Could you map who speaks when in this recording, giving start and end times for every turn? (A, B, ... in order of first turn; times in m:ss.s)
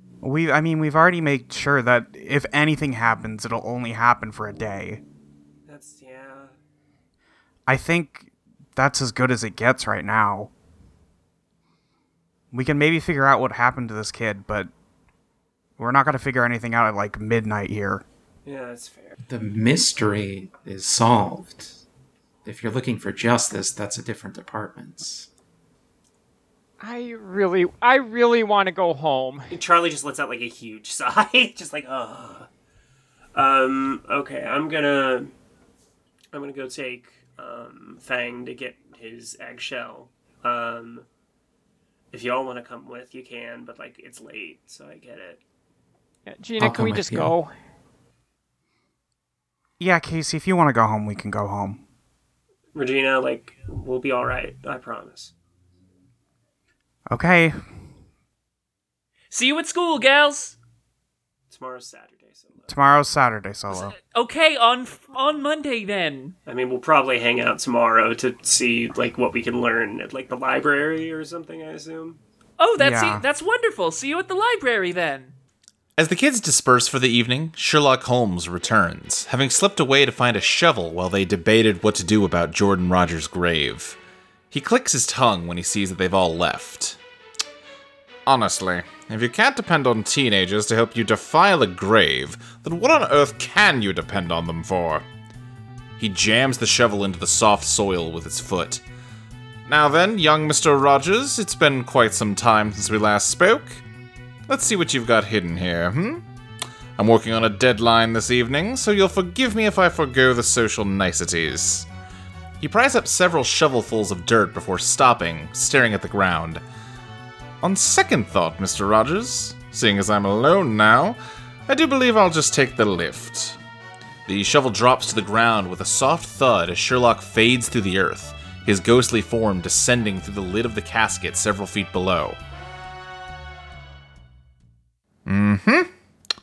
0:00.2-0:05.0 A
0:05.7-0:06.5 B
0:07.7-0:10.5 A
0:12.5-0:14.7 A
0:15.8-0:18.0 A
0:18.4-0:19.2 B
0:19.2-0:21.7 C
0:22.4-0:25.3 C
0:26.8-0:29.5 D
0:29.5-0:32.5 B
0:33.3-0:35.3 B
0:36.3-0:41.0 B
0:42.1-0:45.4 B
0:46.2-0:47.5 D
0:46.6-0:47.3 C
0:49.8-0:51.8 A
0:52.7-0:55.3 B
0:57.1-0:57.6 A
0:59.3-1:00.6 E
1:01.5-1:02.8 B
1:02.7-1:03.9 A
1:03.7-1:06.3 E
1:06.4-1:12.2 B
1:12.6-1:15.3 E
1:12.8-1:13.2 A
1:16.0-1:24.0 F
1:24.5-1:27.0 F
1:28.2-1:35.0 F
1:36.0-1:38.8 F
1:39.7-1:43.8 F
1:44.5-1:46.2 F
1:47.0-1:51.9 F
1:52.6-1:56.6 F
1:57.6-2:03.6 F
2:04.2-2:12.4 F
2:15.2-2:15.9 F